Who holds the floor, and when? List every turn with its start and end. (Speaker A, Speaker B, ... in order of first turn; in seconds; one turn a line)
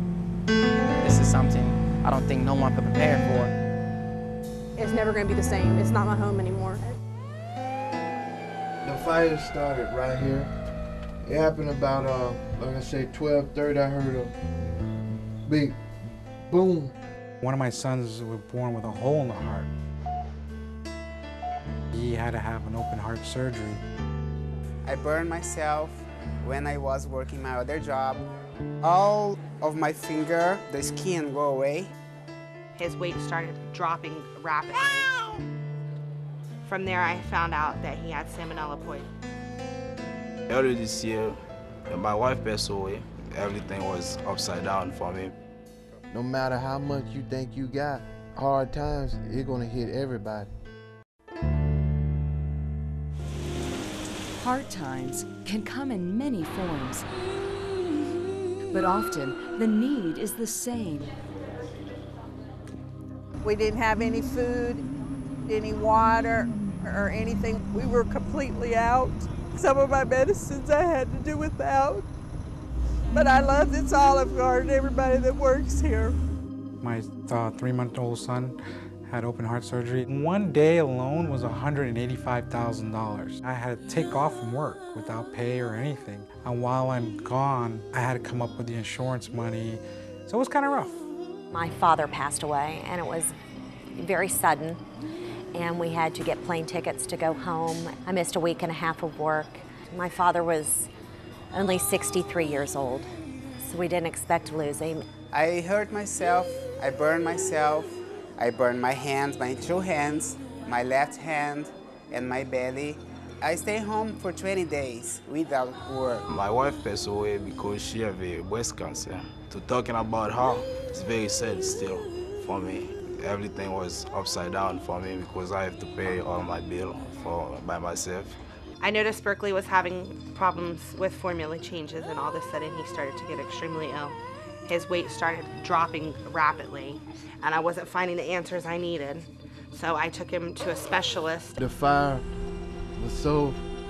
Speaker A: 1.0-3.5
Speaker B: 4.8-6.8
Speaker C: 8.8-10.5
Speaker C: 11.2-14.3
Speaker C: 15.4-15.8
Speaker C: 16.4-16.9
Speaker D: 17.4-19.7
Speaker D: 21.9-23.8
Speaker E: 24.9-28.2
Speaker E: 28.8-31.9
Speaker F: 32.8-35.1
Speaker F: 36.6-39.1
Speaker G: 40.5-41.4
Speaker G: 41.9-45.3
Speaker C: 46.1-50.5
Speaker H: 54.4-57.1
Speaker H: 58.7-61.1
Speaker I: 63.4-64.8
Speaker I: 65.5-72.1
Speaker I: 73.1-76.2
Speaker D: 76.8-91.0
Speaker J: 91.5-93.3
Speaker J: 94.0-94.8
Speaker J: 95.5-100.9
Speaker J: 101.5-103.1
Speaker J: 103.6-105.0
Speaker E: 105.3-116.2
Speaker G: 116.3-128.4
Speaker F: 128.8-141.6
Speaker C: 141.6-142.2
Speaker C: 142.9-143.6